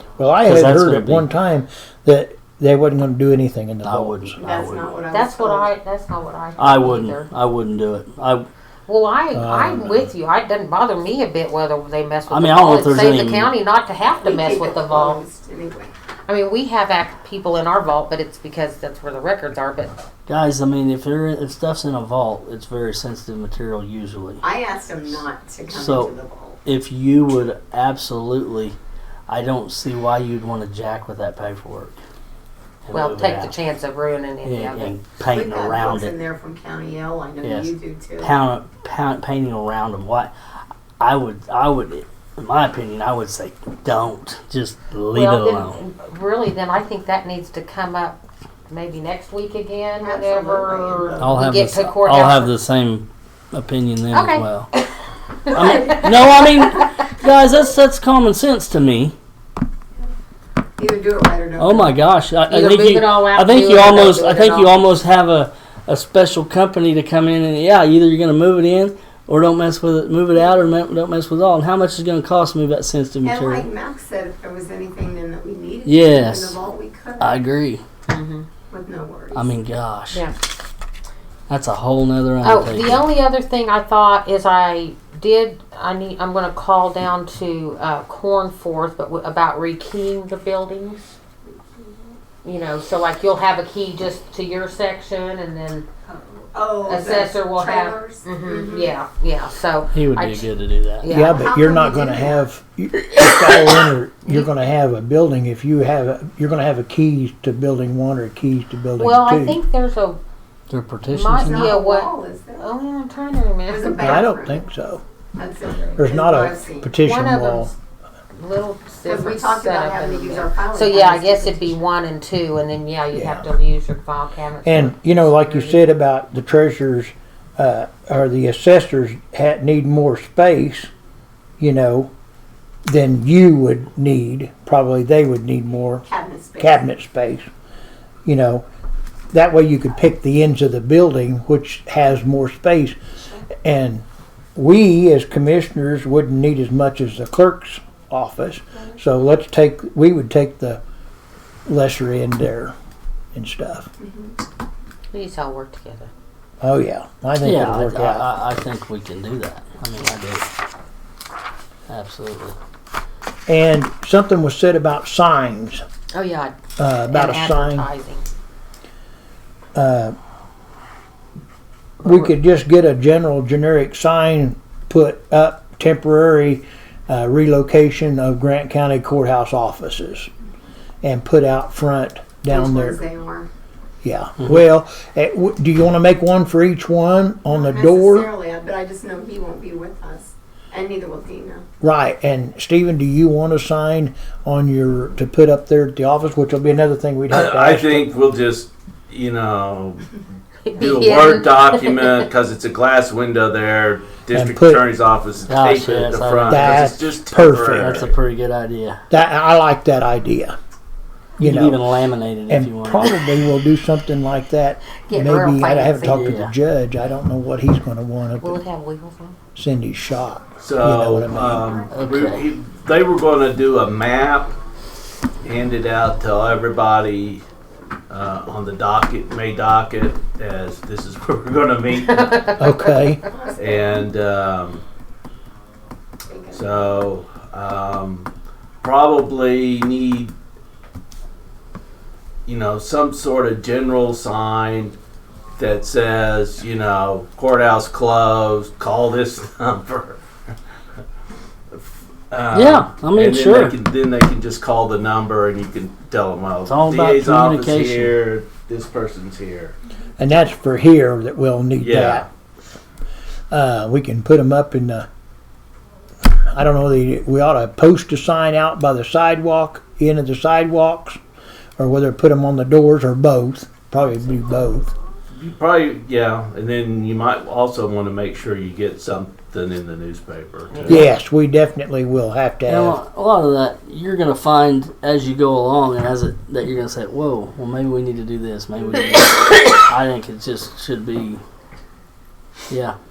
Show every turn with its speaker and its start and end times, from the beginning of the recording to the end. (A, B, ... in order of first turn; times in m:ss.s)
0:00.2-0:04.4 A
0:00.4-0:01.3 B
0:03.8-0:05.0 B
0:04.4-0:05.7 C
0:05.1-0:07.3 D
0:06.6-0:08.5 B
0:08.9-0:15.2 D
0:09.3-0:10.1 A
0:12.3-0:13.5 B
0:14.2-0:15.9 C
0:16.3-0:20.0 D
0:20.3-0:24.4 B
0:24.4-0:26.6 C
0:25.7-0:26.2 B
0:26.6-0:28.8 B
0:29.3-0:32.0 B
0:32.8-0:33.6 B
0:32.9-0:35.0 D
0:34.4-0:36.2 B
0:35.2-0:38.3 C
0:37.4-0:40.3 B
0:41.0-0:45.8 B
0:45.1-0:52.6 D
0:49.9-0:51.4 C
0:51.2-0:54.7 B
0:54.1-0:54.9 D
0:55.5-0:56.9 D
0:55.5-0:59.2 B
1:00.8-1:02.0 C
1:01.6-1:13.7 B
1:02.5-1:04.8 D
1:13.2-1:17.4 C
1:15.9-1:16.6 B
1:17.2-1:17.8 B
1:18.1-1:18.5 D
1:18.7-1:19.5 C
1:19.3-1:20.2 B
1:21.5-1:23.1 B
1:22.4-1:31.1 D
1:31.6-1:32.2 C
1:32.4-1:35.9 D
1:36.1-1:39.0 C
1:36.8-1:40.5 D
1:39.9-1:41.1 B
1:41.0-1:41.6 D
1:41.1-1:49.6 A
1:41.3-1:42.3 C
1:49.0-1:50.2 D
1:50.7-1:51.8 B
1:51.1-1:54.2 D
1:51.4-1:52.8 C
1:53.7-1:54.6 C
1:54.0-1:55.0 A
1:55.4-1:57.0 C
1:56.0-1:57.7 A
1:57.0-1:57.7 D
1:58.4-2:05.8 D
1:59.0-2:01.8 C
2:03.1-2:03.5 A
2:04.6-2:10.9 A
2:11.6-2:12.1 A
2:12.9-2:16.0 A
2:16.1-2:16.8 C
2:16.6-2:17.5 A
2:18.3-2:18.7 A
2:19.3-2:23.0 A
2:23.6-2:24.0 A
2:24.6-2:30.8 A
2:31.7-2:32.8 A
2:33.3-2:33.9 A
2:34.0-2:34.4 C
2:35.1-2:36.1 D
2:36.6-2:38.3 A
2:37.4-2:40.5 B
2:41.9-2:42.6 B
2:43.5-2:45.8 A
2:46.1-2:46.6 D
2:46.8-2:47.9 A
2:47.1-2:48.3 D
2:49.8-2:50.2 A
2:52.0-2:52.3 D
2:52.0-3:00.3 A
3:01.0-3:03.0 A
3:02.5-3:03.5 C
3:04.0-3:08.3 A
3:07.5-3:11.6 C
3:11.8-3:18.1 A
3:17.3-3:20.2 E
3:20.6-3:22.3 D
3:20.8-3:28.2 E
3:24.3-3:24.8 A
3:25.5-3:26.8 B
3:26.5-3:28.1 A
3:27.8-3:29.0 B
3:29.1-3:30.6 A
3:31.4-3:32.0 A
3:31.4-3:33.2 B
3:32.5-3:38.6 A
3:35.0-3:36.3 D
3:36.1-3:36.5 B
3:38.4-3:39.4 D
3:39.6-3:41.8 A
3:40.6-3:44.6 E
3:41.9-3:42.4 B
3:45.4-3:47.5 E
3:48.1-3:52.4 E
3:52.0-3:53.2 D
3:52.6-3:53.2 A
3:53.3-3:54.0 C
3:53.6-3:54.8 E
3:56.3-3:57.0 C
3:56.5-3:58.3 E
3:58.8-4:00.4 E
4:02.5-4:05.0 E
4:05.6-4:10.2 E
4:11.7-4:19.8 E
4:12.5-4:13.8 B
4:16.7-4:18.1 B
4:20.2-4:22.3 A
4:21.8-4:22.3 E
4:23.5-4:25.1 A
4:26.3-4:31.2 A
4:31.8-4:34.9 A
4:35.3-4:41.0 E
4:40.7-4:41.1 D
4:40.9-4:43.0 A
4:42.7-4:51.4 B
4:52.7-4:53.0 B